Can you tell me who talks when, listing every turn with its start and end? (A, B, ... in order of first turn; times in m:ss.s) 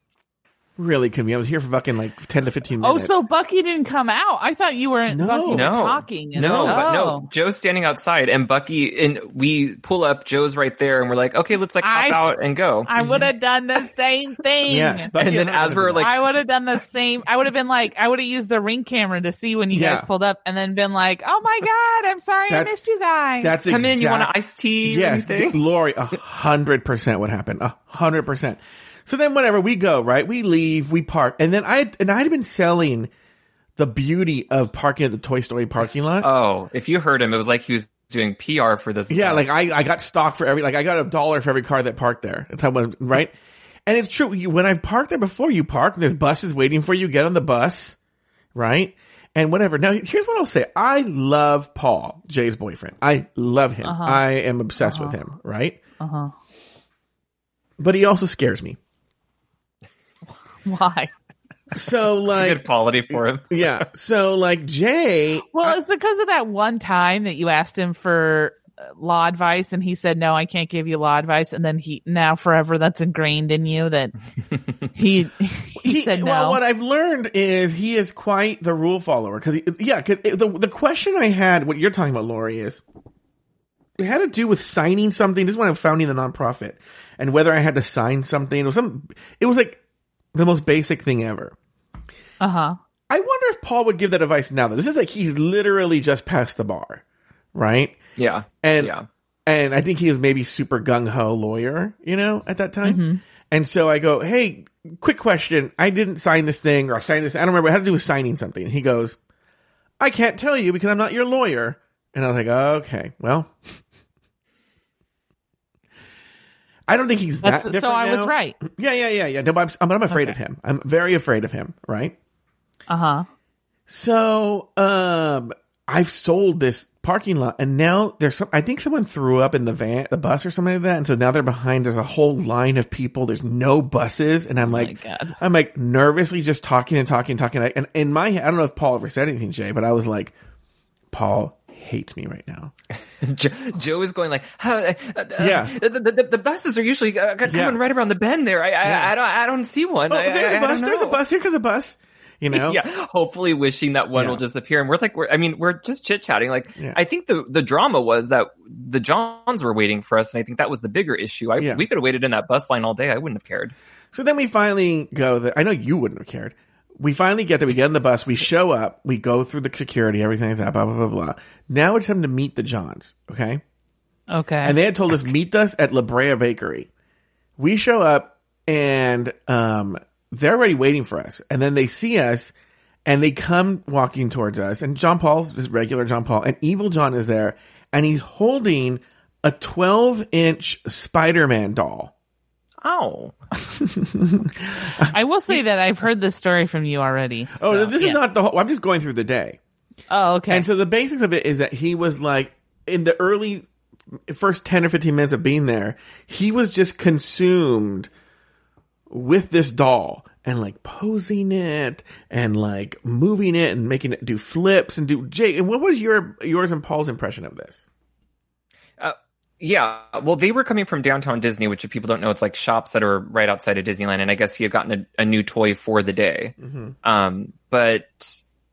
0:00.8-0:03.1 A
0:02.8-0:07.3 B
0:05.1-0:05.7 A
0:05.5-0:12.9 C
0:06.4-0:06.9 A
0:11.8-0:12.2 B
0:12.8-0:15.1 B
0:14.6-0:16.1 A
0:15.2-0:16.2 C
0:16.0-0:23.5 B
0:19.7-0:20.1 A
0:22.5-0:22.8 A
0:23.4-0:24.3 A
0:23.7-0:25.6 C
0:24.8-0:33.1 A
0:33.8-0:36.3 A
0:36.2-0:39.6 C
0:39.1-0:43.3 A
0:43.8-0:48.0 A
0:48.5-0:55.8 A
0:53.8-0:54.2 B
0:54.8-0:55.2 B
0:56.0-0:56.3 B
0:57.8-0:58.8 A
1:00.6-1:01.1 B
1:01.7-1:05.8 A
1:02.3-1:03.8 C
1:05.5-1:14.1 B
1:14.9-1:16.6 B
1:15.8-1:22.8 A
1:24.0-1:29.8 A
1:30.3-1:31.5 A
1:32.4-1:32.8 B
1:33.1-1:37.0 A
1:37.5-1:38.0 A
1:38.2-1:39.0 C
1:38.6-1:38.9 A
1:39.4-1:49.2 A
1:42.8-1:43.2 B
1:50.0-1:53.8 A
1:56.9-2:02.1 A
1:57.4-1:58.6 B
2:00.1-2:00.4 B
2:02.9-2:03.2 B
2:03.9-2:20.3 A
2:14.6-2:15.4 B
2:21.1-2:22.7 A
2:23.2-2:31.2 C
2:25.4-2:25.7 A
2:27.4-2:27.8 A
2:28.8-2:29.1 A
2:30.1-2:32.8 A
2:32.5-2:43.7 C
2:34.1-2:34.4 A
2:41.6-2:41.8 A
2:44.1-2:53.6 A
2:54.3-2:54.8 B
2:54.6-2:56.9 A
2:57.6-3:02.5 A
3:03.0-3:12.1 A
3:12.8-3:13.4 C
3:13.8-3:15.6 A
3:15.0-3:18.2 B
3:17.6-3:19.6 A
3:20.1-3:20.6 B
3:20.5-3:23.6 A
3:24.3-3:28.1 A
3:29.1-3:37.8 A
3:39.0-3:48.4 C
3:46.6-3:46.9 A